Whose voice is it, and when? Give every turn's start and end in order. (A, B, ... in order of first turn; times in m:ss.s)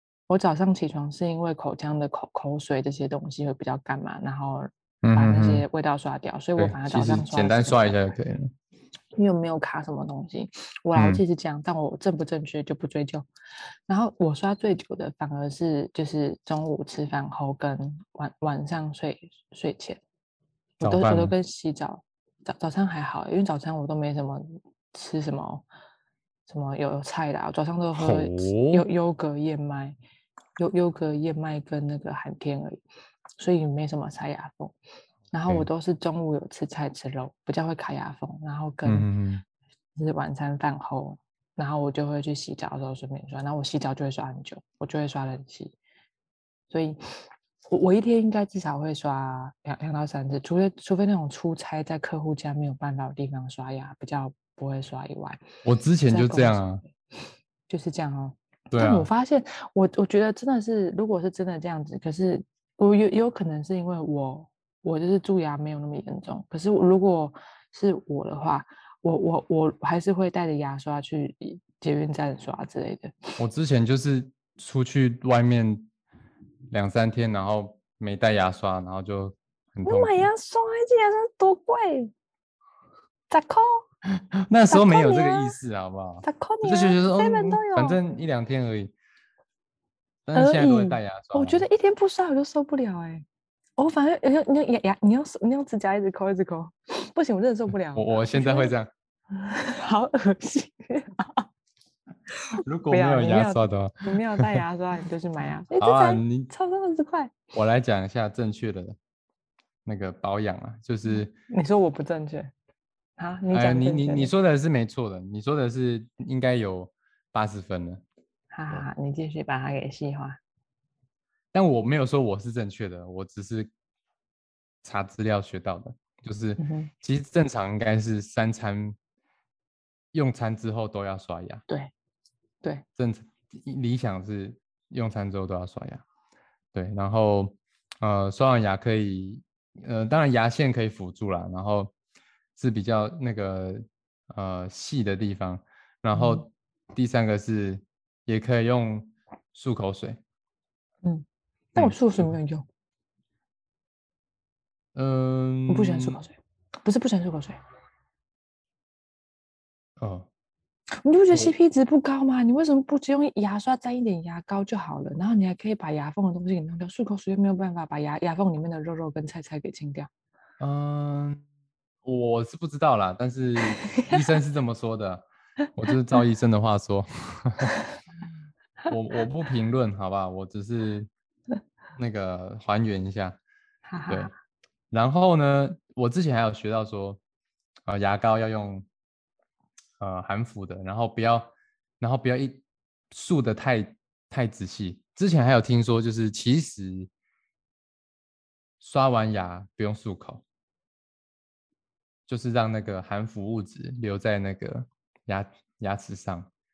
0:00.3-0:08.1 A
0:05.0-0:05.6 B
0:06.6-0:08.5 B
0:09.1-0:13.3 A
0:11.0-0:11.2 B
0:13.9-0:20.0 A
0:20.8-0:21.3 B
0:20.8-0:25.6 A
0:26.5-0:30.0 A
0:27.9-0:28.8 B
0:30.6-0:32.8 A
0:33.4-0:34.7 A
0:35.3-0:39.1 A
0:38.8-0:39.4 B
0:40.0-0:45.7 A
0:46.7-0:55.4 A
0:55.6-0:56.8 B
0:56.1-0:56.8 A
0:57.7-1:13.1 A
0:58.7-0:59.1 B
1:13.4-1:15.9 B
1:16.7-1:20.3 B
1:19.8-1:22.1 A
1:23.3-1:23.8 A
1:24.5-1:28.9 B
1:24.7-1:25.5 A
1:26.2-1:28.0 A
1:30.2-1:31.6 B
1:30.3-1:33.2 A
1:33.8-1:38.7 A
1:37.9-1:38.9 B
1:39.3-1:41.5 A
1:42.5-1:47.4 A
1:42.6-1:44.6 B
1:45.8-1:46.5 B
1:47.5-1:49.0 B
1:49.8-1:51.3 B
1:51.1-1:52.5 A
1:53.2-1:54.3 A
1:53.5-1:58.0 B
1:58.5-2:00.4 A
2:01.5-2:03.7 B
2:04.8-2:09.0 B
2:06.6-2:06.9 A
2:10.1-2:11.6 B
2:13.0-2:16.0 B
2:16.7-2:21.9 B
2:22.6-2:30.2 B
2:26.1-2:26.4 A
2:31.0-2:32.6 A
2:31.8-2:32.3 B
2:34.9-2:36.2 B
2:35.7-2:37.6 A
2:40.0-2:40.3 B
2:41.0-2:50.1 A
2:50.6-2:51.4 B
2:52.0-2:55.2 B
2:53.6-2:54.2 A
2:55.8-2:57.7 B
2:58.9-3:01.1 B
3:02.0-3:03.4 B
3:03.9-3:04.3 A
3:04.1-3:04.3 B
3:04.9-3:07.2 B
3:07.8-3:08.8 B
3:10.0-3:17.1 B
3:18.8-3:20.4 B
3:22.3-3:26.5 B